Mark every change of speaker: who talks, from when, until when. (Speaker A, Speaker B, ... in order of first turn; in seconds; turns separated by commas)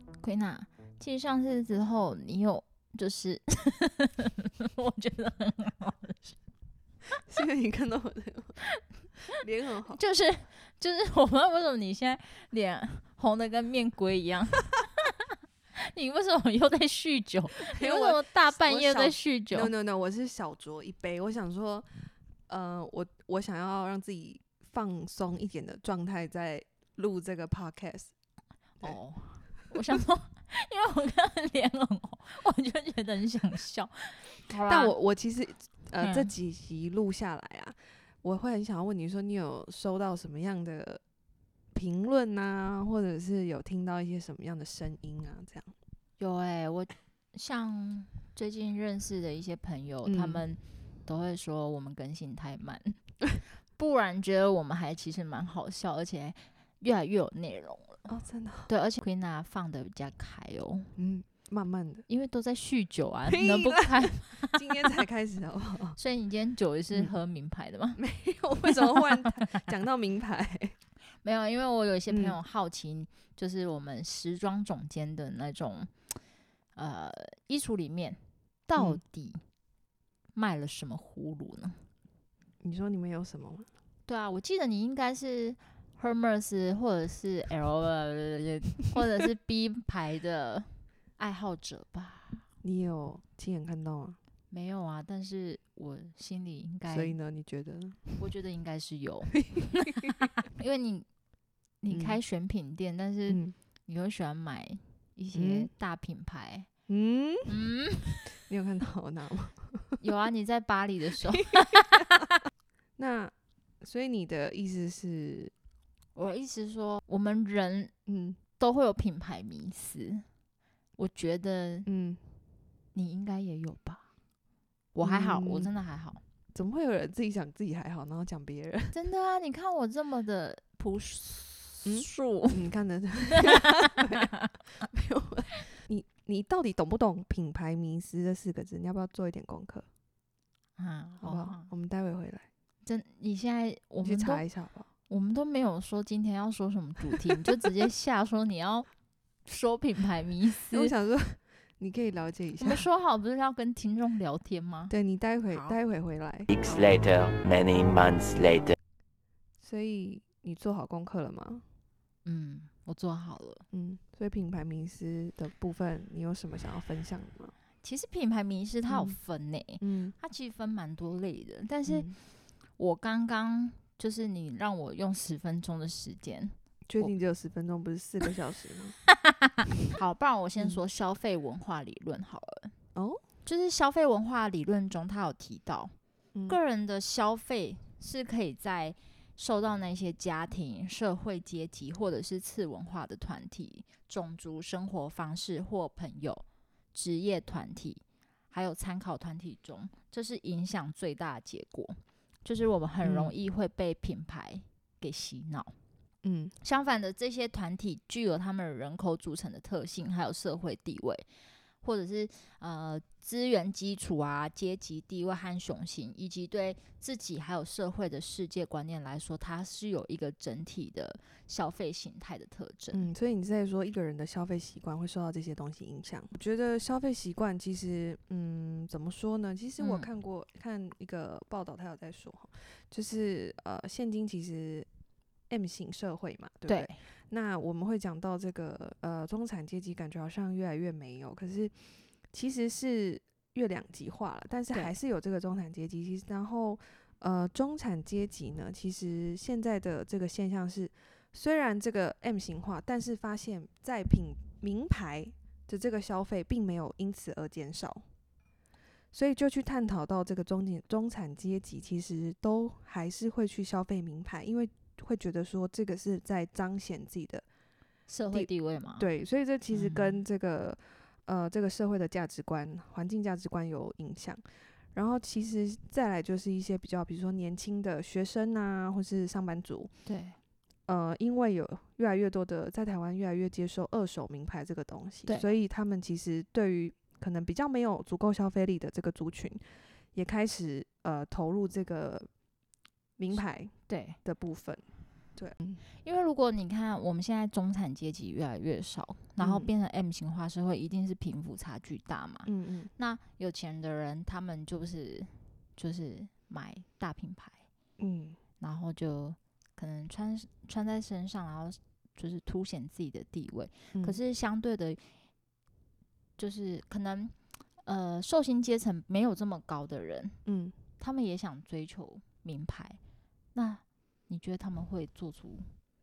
Speaker A: 0.2-6.4, Speaker B: 7.2-8.6, Speaker B: 9.3-10.0, Speaker A: 9.9-15.1, Speaker A: 15.7-19.7, Speaker B: 17.6-21.9, Speaker B: 22.5-28.1, Speaker A: 28.8-34.9, Speaker B: 34.7-41.0, Speaker A: 36.0-36.3, Speaker B: 41.7-45.7, Speaker A: 46.2-53.0, Speaker B: 50.0-50.5, Speaker A: 53.7-58.1, Speaker B: 58.1-58.7, Speaker A: 58.7-60.9, Speaker B: 61.0-62.1, Speaker A: 62.1-64.8, Speaker B: 63.3-66.0, Speaker A: 66.0-68.0, Speaker B: 68.0-70.7, Speaker A: 68.7-69.2, Speaker A: 71.2-75.9, Speaker B: 72.1-72.4, Speaker A: 76.7-79.4, Speaker B: 78.8-79.0, Speaker A: 80.3-81.8, Speaker B: 82.6-83.7, Speaker A: 84.0-92.5, Speaker B: 92.6-94.2, Speaker A: 94.5-97.2, Speaker B: 96.9-98.2, Speaker A: 98.2-101.1, Speaker B: 99.3-100.3, Speaker A: 101.8-106.7, Speaker B: 101.9-102.2, Speaker B: 103.3-103.5, Speaker B: 105.3-105.7, Speaker B: 106.9-107.6, Speaker A: 107.5-108.4, Speaker B: 108.3-110.0, Speaker A: 110.0-112.0, Speaker B: 111.3-112.1, Speaker B: 113.0-115.5, Speaker A: 116.1-117.9, Speaker B: 118.0-118.4, Speaker A: 118.6-120.2, Speaker A: 121.0-121.9, Speaker B: 121.8-122.2, Speaker A: 122.9-124.1, Speaker A: 124.9-126.2, Speaker B: 125.0-125.7, Speaker B: 126.5-129.0, Speaker A: 128.9-132.6, Speaker B: 131.8-139.8, Speaker A: 133.4-134.2, Speaker A: 140.8-141.7, Speaker B: 141.2-142.5, Speaker A: 142.8-144.4, Speaker B: 144.0-144.9, Speaker A: 145.1-148.9, Speaker A: 149.4-150.9, Speaker B: 150.7-152.8, Speaker A: 152.6-154.9, Speaker B: 154.9-156.5, Speaker A: 155.5-155.8, Speaker C: 156.5-158.8, Speaker B: 159.6-161.6, Speaker A: 162.2-163.6, Speaker B: 163.7-167.5, Speaker A: 167.8-172.2, Speaker B: 168.9-169.2, Speaker B: 169.8-170.2, Speaker B: 171.8-172.2, Speaker A: 172.8-177.1, Speaker B: 176.9-179.0, Speaker A: 179.1-182.7, Speaker B: 182.9-183.2, Speaker A: 183.4-185.9, Speaker B: 186.3-186.6, Speaker A: 186.5-205.8, Speaker B: 203.0-203.3, Speaker B: 206.2-206.6, Speaker A: 206.6-211.2, Speaker A: 211.8-223.1, Speaker B: 222.9-234.9, Speaker A: 229.8-230.1, Speaker B: 235.5-258.0, Speaker A: 236.7-237.0, Speaker B: 259.1-267.4, Speaker A: 268.1-269.1, Speaker B: 268.3-274.4, Speaker A: 269.7-270.2, Speaker B: 274.9-279.9, Speaker A: 280.1-280.4, Speaker B: 280.9-289.6, Speaker B: 290.1-292.3, Speaker B: 293.2-295.8, Speaker A: 293.3-294.2, Speaker A: 296.0-307.7, Speaker B: 299.4-299.7, Speaker B: 302.4-302.9, Speaker B: 308.0-308.4, Speaker A: 308.6-315.1, Speaker B: 313.9-314.2, Speaker A: 316.4-320.4, Speaker B: 320.4-320.8, Speaker A: 321.0-323.0, Speaker A: 323.5-325.7